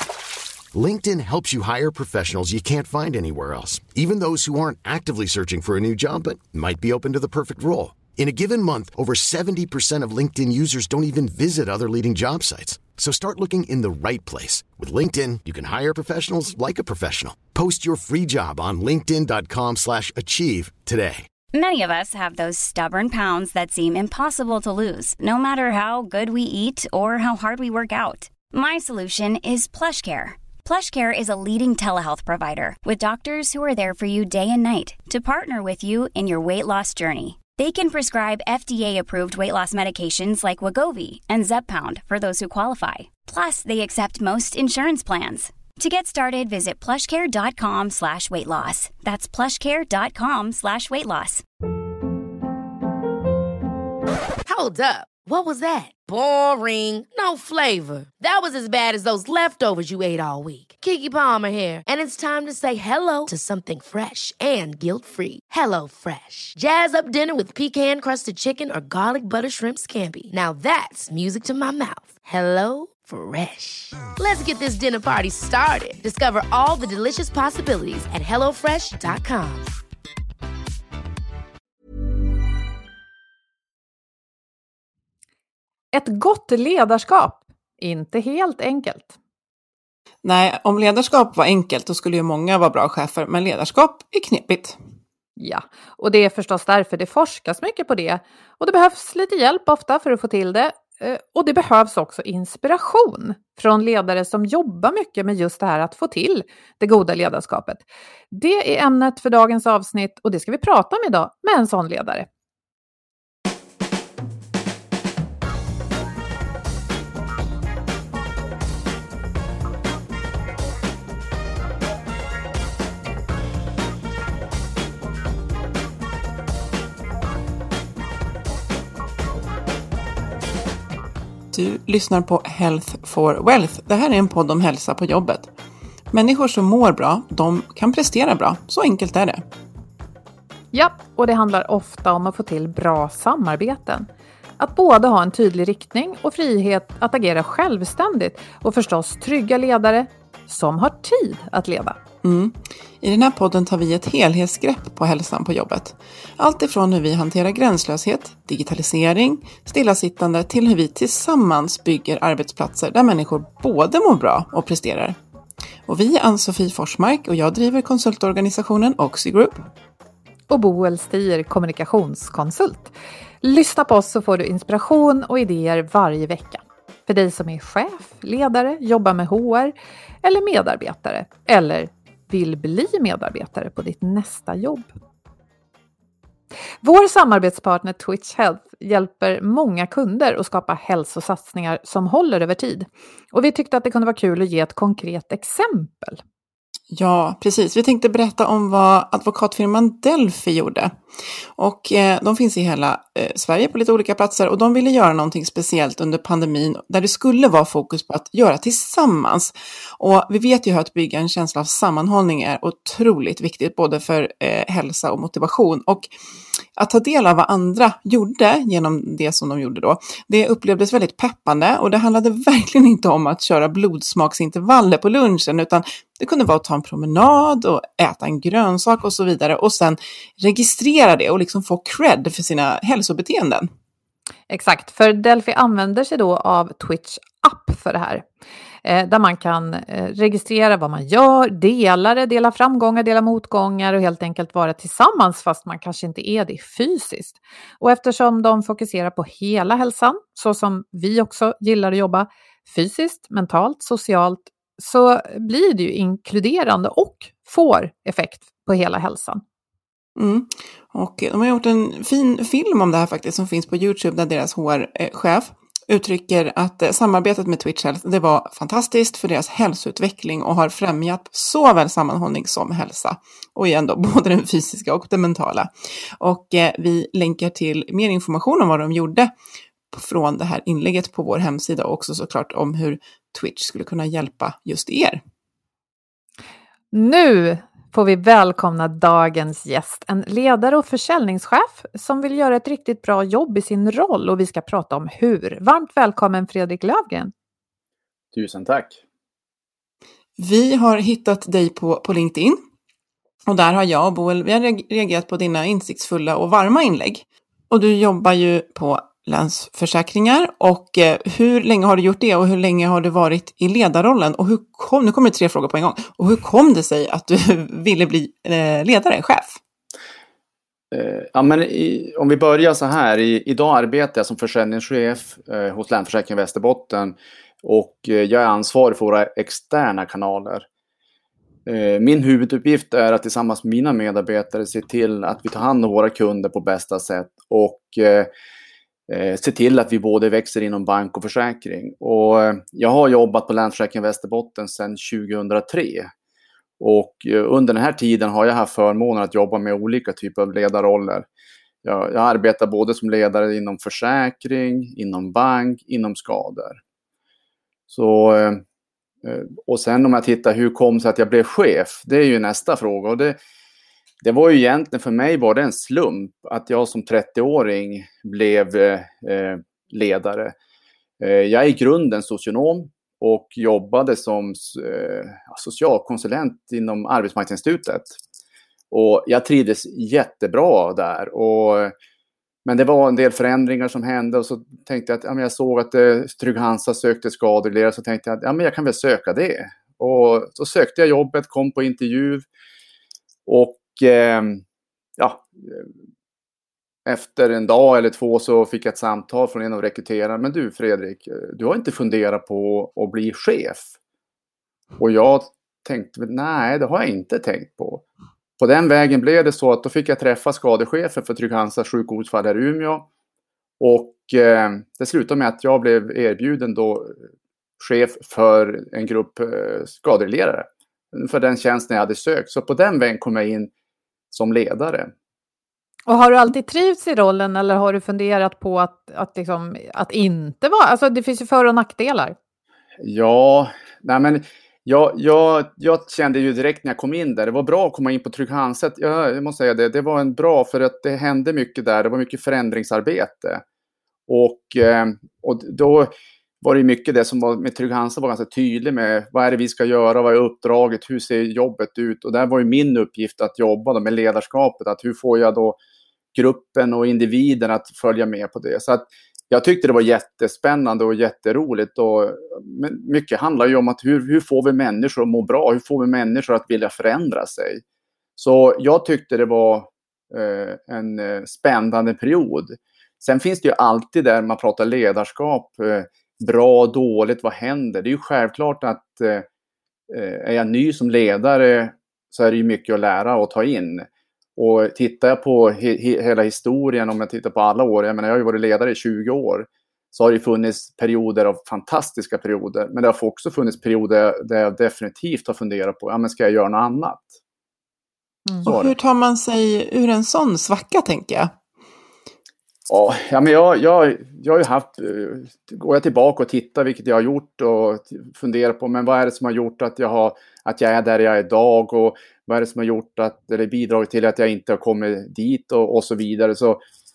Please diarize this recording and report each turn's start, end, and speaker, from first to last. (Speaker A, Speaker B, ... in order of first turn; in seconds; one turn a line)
Speaker A: 0.7-21.3
Speaker B: 21.5-51.4
Speaker C: 54.5-79.7
Speaker D: 85.9-89.1
Speaker E: 90.2-94.8
Speaker D: 95.4-112.2
Speaker E: 131.5-135.5
Speaker E: 136.1-139.4
Speaker D: 140.7-144.1
Speaker D: 144.6-152.0
Speaker E: 152.2-165.2
Speaker E: 165.9-169.7
Speaker D: 170.5-184.9
Speaker D: 186.8-196.2
Speaker E: 196.9-200.9
Speaker E: 201.6-216.1
Speaker E: 216.8-233.7
Speaker D: 234.5-238.2
Speaker D: 238.8-259.4
Speaker E: 260.1-279.3
Speaker E: 279.9-285.2
Speaker D: 286.9-297.3
Speaker F: 298.3-299.0
Speaker E: 300.4-302.6
Speaker E: 303.5-319.6
Speaker F: 320.9-330.7
Speaker F: 331.6-338.3
Speaker F: 339.1-346.1
Speaker F: 346.8-351.3
Speaker F: 351.8-356.8
Speaker F: 357.9-358.6
Speaker F: 359.2-363.4
Speaker F: 364.2-370.5
Speaker F: 371.2-378.2
Speaker F: 378.9-381.9
Speaker F: 382.6-392.4
Speaker F: 393.4-394.6
Speaker F: 395.2-395.9
Speaker F: 397.0-403.9
Speaker F: 405.0-408.0
Speaker F: 408.6-413.1
Speaker F: 413.8-417.2
Speaker F: 417.8-423.7
Speaker F: 424.3-425.1
Speaker D: 426.1-432.4
Speaker F: 433.0-443.6
Speaker F: 444.3-455.8
Speaker F: 456.3-467.8
Speaker F: 468.4-479.4
Speaker F: 480.1-497.4
Speaker F: 498.6-498.9
Speaker E: 498.6-501.5
Speaker F: 502.9-516.8